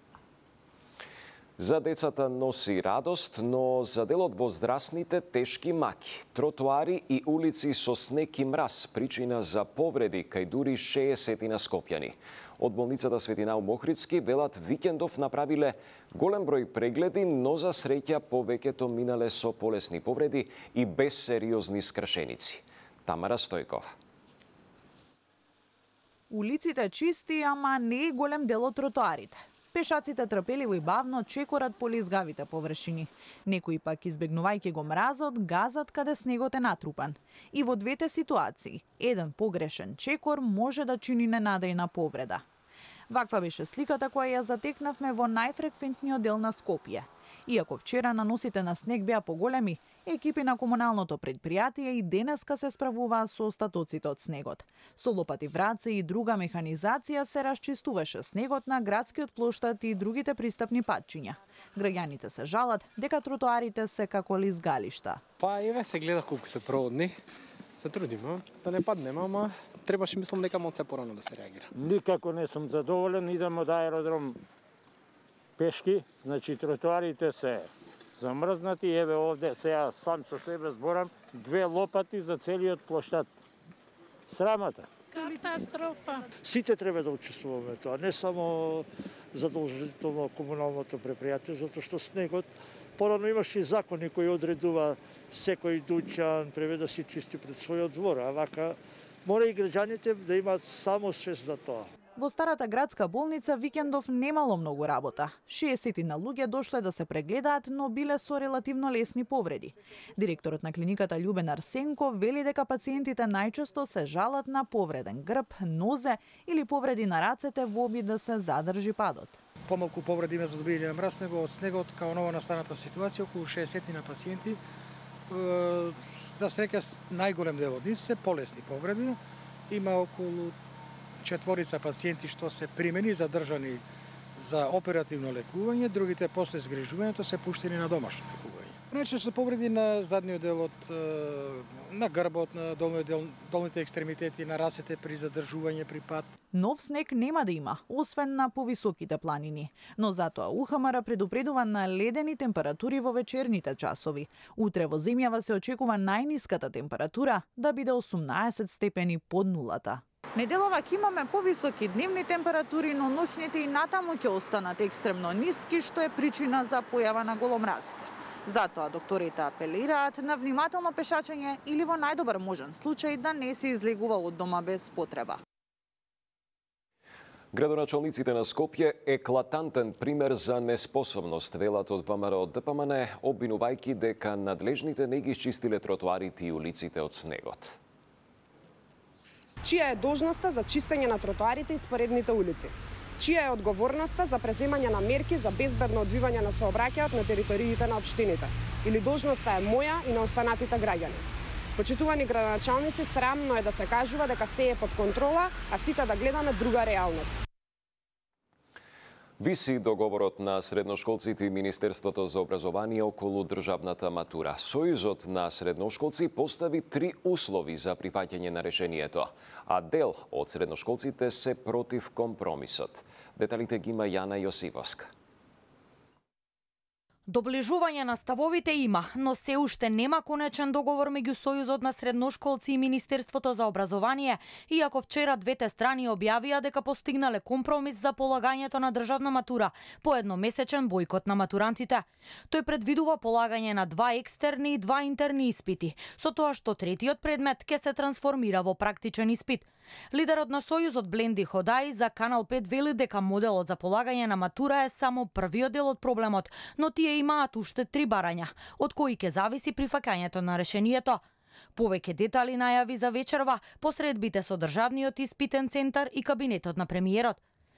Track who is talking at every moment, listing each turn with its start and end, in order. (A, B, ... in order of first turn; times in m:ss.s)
0:01.6-0:23.9 A
0:26.3-0:42.4 B
0:43.1-1:05.2 B
1:05.4-1:07.0 C
1:07.9-1:11.6 C
1:11.7-1:14.4 D
1:15.6-1:23.3 D
1:24.3-1:24.9 D
1:26.4-1:41.9 E
1:42.2-1:59.4 B
1:59.6-2:04.6 F
2:05.3-2:10.6 F
2:11.2-2:13.8 F
2:14.4-2:26.3 F
2:26.5-2:55.4 B
2:57.5-3:07.8 A
3:09.6-3:21.2 G
3:21.8-3:27.4 G
3:29.4-3:45.1 A
3:47.3-4:21.2 H
4:21.8-4:27.4 H